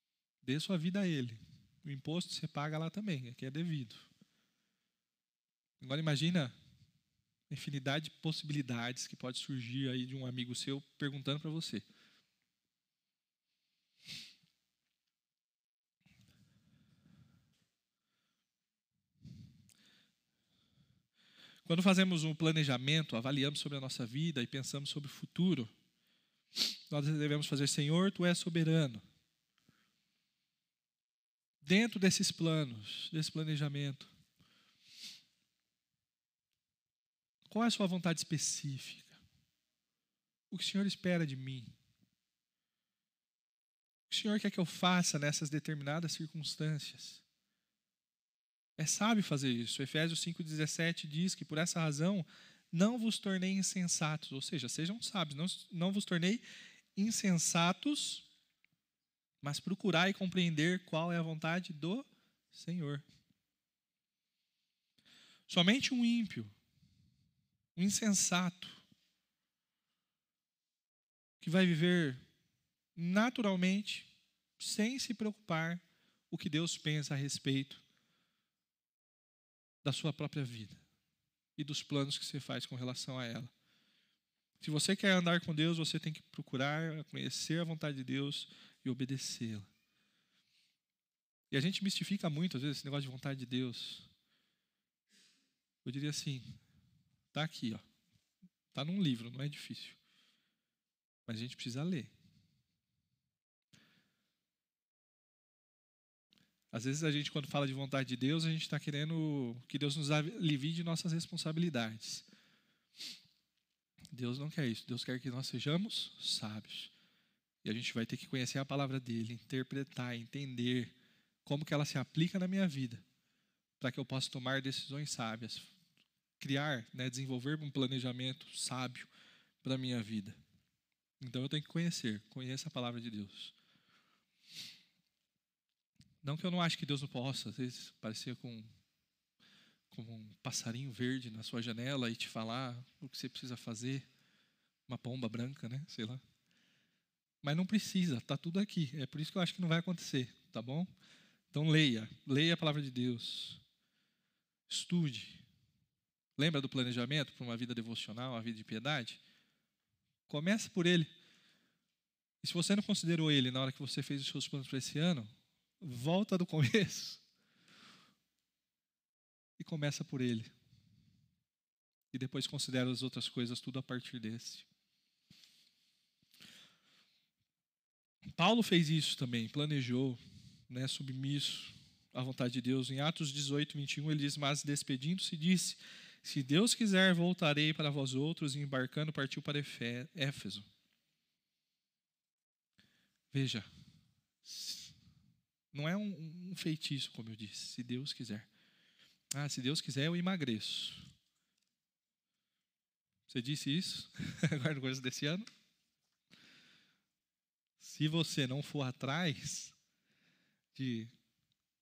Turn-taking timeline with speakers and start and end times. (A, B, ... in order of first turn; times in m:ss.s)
0:00.4-0:04.1 A
0:05.8-0:06.5 A
0:07.5-0:11.8 A
0:21.6-0:25.7 A
0:26.6-0:29.0 A
0:31.6-0:34.1 A
0:37.5-0:39.2 A
0:40.5-0:41.7 A
0:44.1-0:47.2 A
0:48.8-0:56.4 A
0:57.0-0:58.3 A
0:59.4-1:03.0 A
1:05.5-1:06.5 A
1:07.8-1:08.8 A
1:11.4-1:12.2 A
1:13.0-1:17.8 A
1:19.8-1:20.8 A
1:21.6-1:23.5 A
1:24.6-1:29.7 A
1:31.5-1:34.1 A
1:35.8-1:36.6 A
1:37.3-1:37.8 A
1:38.7-1:40.0 A
1:41.3-1:42.1 A
1:46.7-1:52.2 A
1:54.1-1:56.9 A
1:57.6-2:00.9 A
2:01.4-2:03.0 A
2:03.8-2:05.7 A
2:06.4-2:09.1 A
2:09.6-2:10.4 A
2:11.2-2:13.5 A
2:16.2-2:18.7 A
2:19.9-2:24.0 A
2:24.9-2:26.2 A
2:27.4-2:30.9 A
2:31.5-2:33.6 A
2:34.7-2:35.4 A
2:36.4-2:39.2 A
2:40.3-2:41.1 A
2:42.4-2:45.3 A
2:45.8-2:47.2 A
2:49.6-2:50.5 A
2:52.1-2:54.6 A
2:58.4-3:10.6 A
3:13.3-3:13.7 A
3:14.4-3:14.9 A
3:15.7-3:18.5 A
3:19.3-3:21.1 A
3:23.3-3:25.4 A
3:27.8-3:29.7 A
3:30.7-3:31.1 A